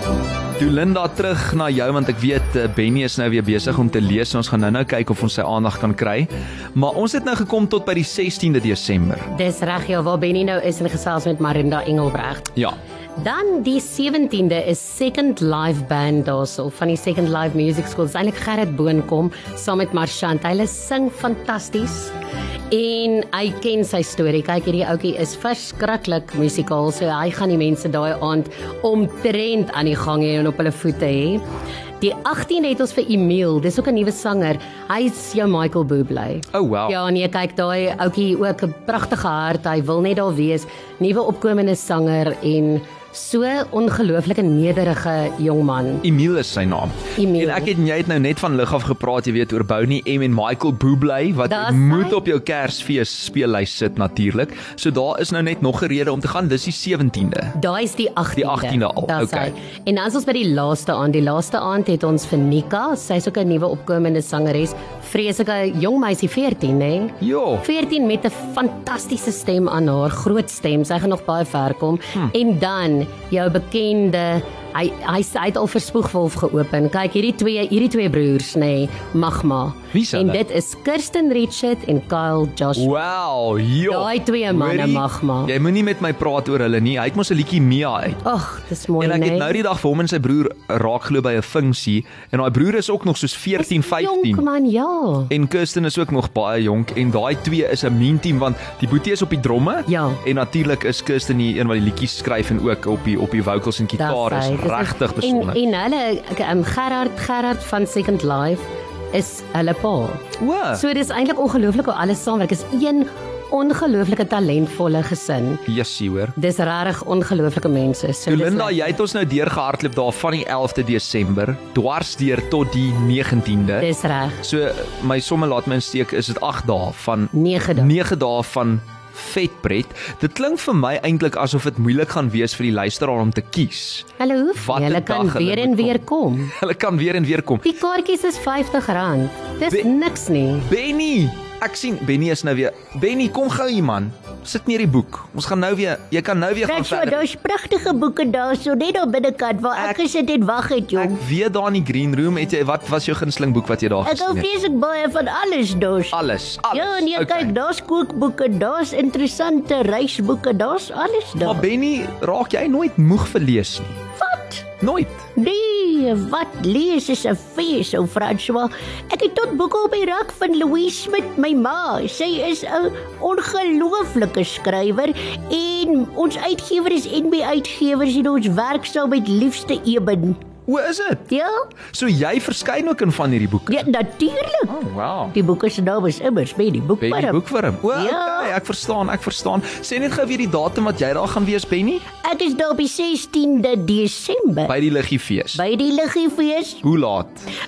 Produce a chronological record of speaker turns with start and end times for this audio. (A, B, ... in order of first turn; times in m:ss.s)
0:00.6-0:09.3 A
0:09.3-0:12.6 B
0:13.2-0:22.2 B
0:22.7-0:31.4 B
0:32.0-0:46.0 B
0:36.5-0:37.0 A
0:46.0-0:57.6 A
0:47.2-0:47.7 B
0:51.5-0:52.2 B
0:57.6-1:22.9 B
0:58.4-0:59.5 A
1:07.2-1:07.6 A
1:19.9-1:20.4 A
1:22.8-1:28.2 A
1:23.9-1:25.5 B
1:28.2-1:29.6 B
1:29.0-1:34.4 A
1:33.6-1:35.3 B
1:35.3-1:45.6 A
1:39.9-1:40.2 B
1:44.0-1:50.2 B
1:50.4-1:50.8 A
1:50.8-1:55.6 B
1:55.7-1:56.3 A
1:56.4-1:59.0 B
1:58.3-2:03.9 A
2:03.8-2:04.4 B
2:04.4-2:17.7 A
2:07.3-2:07.9 B
2:14.2-2:16.5 B
2:17.6-2:20.7 B
2:20.6-2:27.3 A
2:26.6-2:31.2 C
2:29.8-2:30.0 A
2:31.0-2:34.5 A
2:34.0-2:36.2 C
2:36.1-2:37.5 A
2:36.7-2:41.7 C
2:41.4-2:44.0 A
2:44.2-2:44.7 C
2:44.8-2:45.3 A
2:45.4-3:00.4 C
3:00.7-3:01.3 A
3:01.3-3:01.7 C
3:01.9-3:03.9 A
3:03.7-3:04.8 C
3:04.7-3:05.3 A
3:05.3-3:08.6 C
3:07.0-3:12.0 A
3:12.2-3:14.8 C
3:14.7-3:15.6 A
3:15.5-3:16.8 C
3:16.8-3:17.4 A